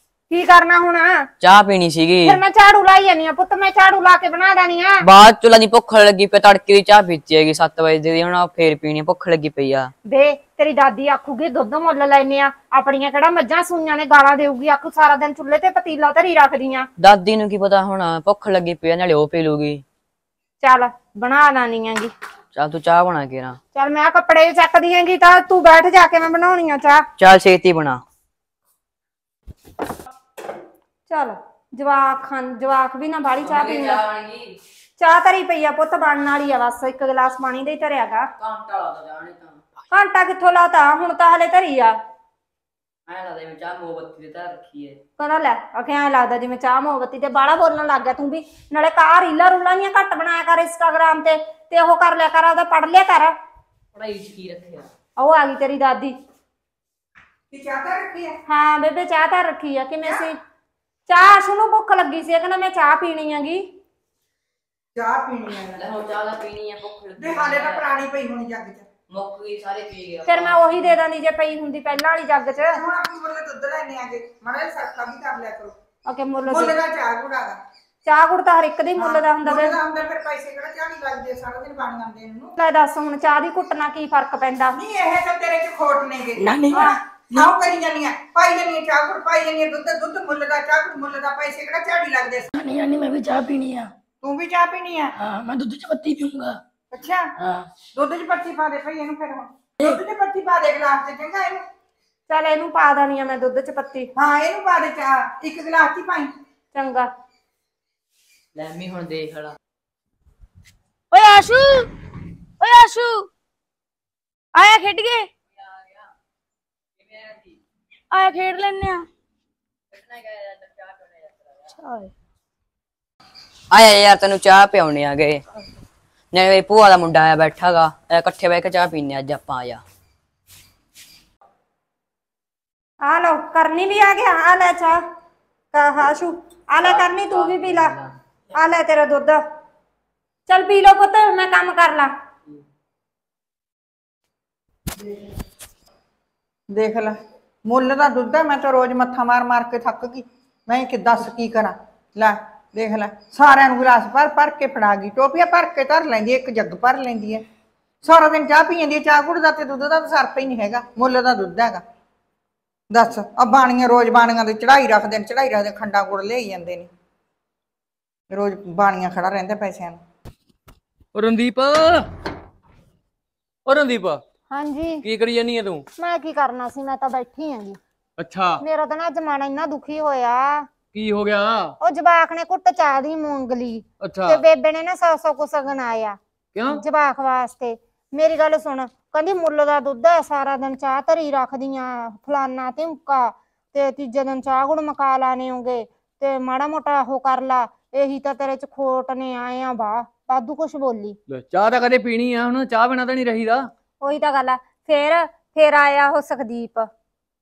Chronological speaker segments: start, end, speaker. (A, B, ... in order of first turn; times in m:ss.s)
0:00.3-0:01.3 A
0:01.4-0:02.4 B
0:02.2-0:05.0 A
0:05.0-0:09.9 B
0:10.1-0:16.9 A
0:17.0-0:19.8 B
0:20.6-0:22.1 A
0:22.5-0:23.6 B
0:23.8-0:27.1 A
0:27.2-0:28.0 B
0:31.1-0:34.0 A
0:33.4-0:34.6 B
0:35.0-0:38.3 A
0:38.4-0:39.6 B
0:39.9-0:42.0 A
0:43.1-0:45.0 B
0:45.2-0:53.4 A
0:53.9-0:54.9 B
0:55.2-0:56.2 A
0:57.5-0:58.4 C
0:58.5-1:00.4 A
1:01.1-1:03.8 A
1:05.0-1:05.8 C
1:05.8-1:07.9 B
1:07.2-1:08.9 C
1:09.1-1:11.0 B
1:10.3-1:12.8 A
1:12.7-1:15.8 C
1:16.1-1:16.7 A
1:16.4-1:17.6 C
1:18.0-1:19.8 A
1:19.0-1:22.5 C
1:22.6-1:24.8 A
1:24.7-1:32.5 C
1:32.6-1:33.9 D
1:34.2-1:35.1 C
1:35.3-1:36.5 D
1:36.9-1:37.3 C
1:37.9-1:41.6 C
1:42.3-1:44.1 A
1:44.2-1:46.3 C
1:46.7-1:47.1 A
1:48.6-1:49.6 B
1:51.1-1:51.9 D
1:52.6-1:53.3 D
1:54.5-1:55.3 D
1:55.6-1:56.1 B
1:57.0-1:57.6 B
1:58.1-1:59.1 D
1:59.9-2:01.7 B
2:01.8-2:02.1 D
2:03.7-2:05.4 B
2:06.3-2:09.8 B
2:13.0-2:15.0 A
2:15.7-2:18.0 A
2:16.8-2:18.1 B
2:18.5-2:19.4 A
2:20.5-2:22.1 A
2:26.7-2:37.4 C
2:38.0-2:41.8 C
2:42.9-2:46.9 C
2:48.3-2:50.0 C
2:51.1-2:52.1 E
2:53.7-2:54.2 E
2:54.5-2:55.0 A
2:55.0-2:55.9 E
2:56.0-2:57.8 A
2:58.2-2:58.6 E
2:58.6-3:00.7 A
3:00.9-3:01.8 E
3:01.8-3:21.2 A
3:04.0-3:04.4 E
3:06.5-3:06.8 E
3:21.3-3:23.7 E
3:24.0-3:26.9 A